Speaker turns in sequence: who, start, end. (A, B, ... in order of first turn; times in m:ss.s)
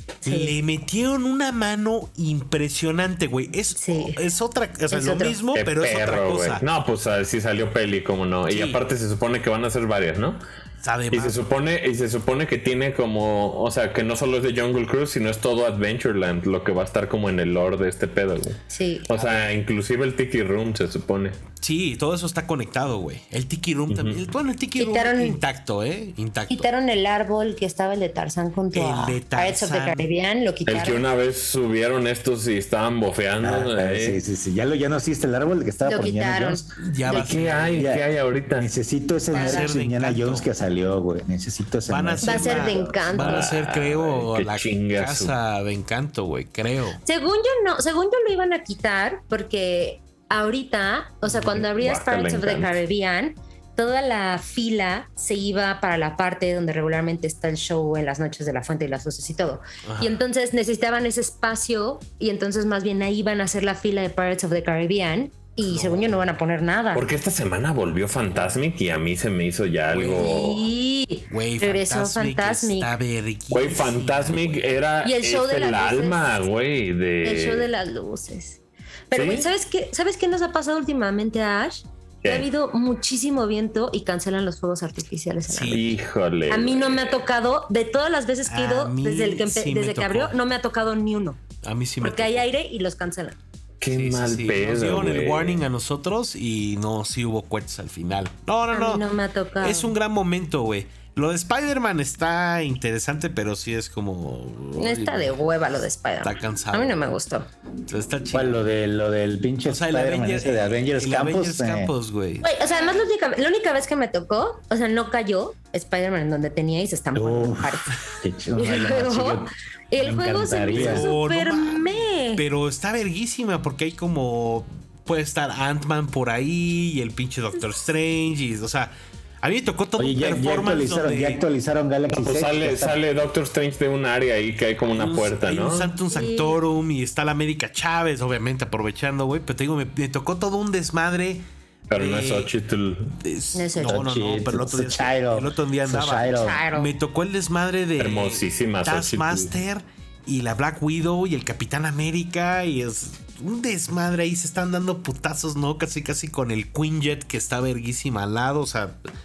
0:00.2-0:06.6 A
0:00.2-0:00.6 B
0:03.8-0:04.2 B
0:04.9-0:05.4 B
0:05.6-0:10.4 C
0:08.5-0:08.8 A
0:10.8-0:11.4 A
0:11.1-0:21.4 C
0:18.7-0:19.1 B
0:21.6-0:26.7 A
0:23.9-0:24.2 C
0:24.8-0:25.4 B
0:26.5-0:31.0 B
0:28.7-0:30.0 A
0:30.6-0:34.2 C
0:33.4-0:36.6 D
0:35.8-0:37.4 B
0:36.8-0:37.9 A
0:37.1-0:38.7 C
0:37.8-0:43.0 D
0:39.3-0:39.7 B
0:39.3-0:40.5 A
0:41.9-0:47.0 A
0:42.2-0:43.5 B
0:43.1-0:45.3 C
0:47.0-1:07.0 B
0:51.3-0:51.6 A
0:51.5-0:52.8 C
0:59.8-1:00.2 A
1:05.6-1:06.3 A
1:06.9-1:10.7 C
1:09.9-1:10.3 A
1:09.9-1:12.9 B
1:11.3-1:14.7 A
1:13.5-1:17.7 C
1:15.0-1:16.3 B
1:17.2-1:18.6 B
1:19.1-1:25.9 B
1:19.1-1:19.5 C
1:22.2-1:22.5 C
1:25.5-1:26.0 A
1:25.7-1:27.3 C
1:26.5-1:31.4 B
1:28.4-1:30.4 A
1:31.6-1:32.4 A
1:32.0-1:33.4 B
1:33.8-1:35.6 C
1:33.9-1:39.0 A
1:38.7-1:39.9 B
1:39.6-1:45.4 A
1:44.8-1:47.5 B
1:46.2-1:47.0 A
1:47.9-1:48.6 A
1:48.3-1:51.9 D
1:49.6-1:52.5 A
1:52.4-1:58.0 B
1:57.1-2:01.1 D
1:58.6-2:02.4 B
2:00.7-2:11.4 A
2:10.0-2:13.0 D
2:12.1-2:15.9 C
2:14.9-2:22.5 A
2:16.1-2:16.6 B
2:21.9-2:23.1 C
2:23.2-2:39.0 A
2:23.5-2:24.0 B
2:23.8-2:26.6 D
2:26.3-2:26.9 B
2:28.0-2:29.5 C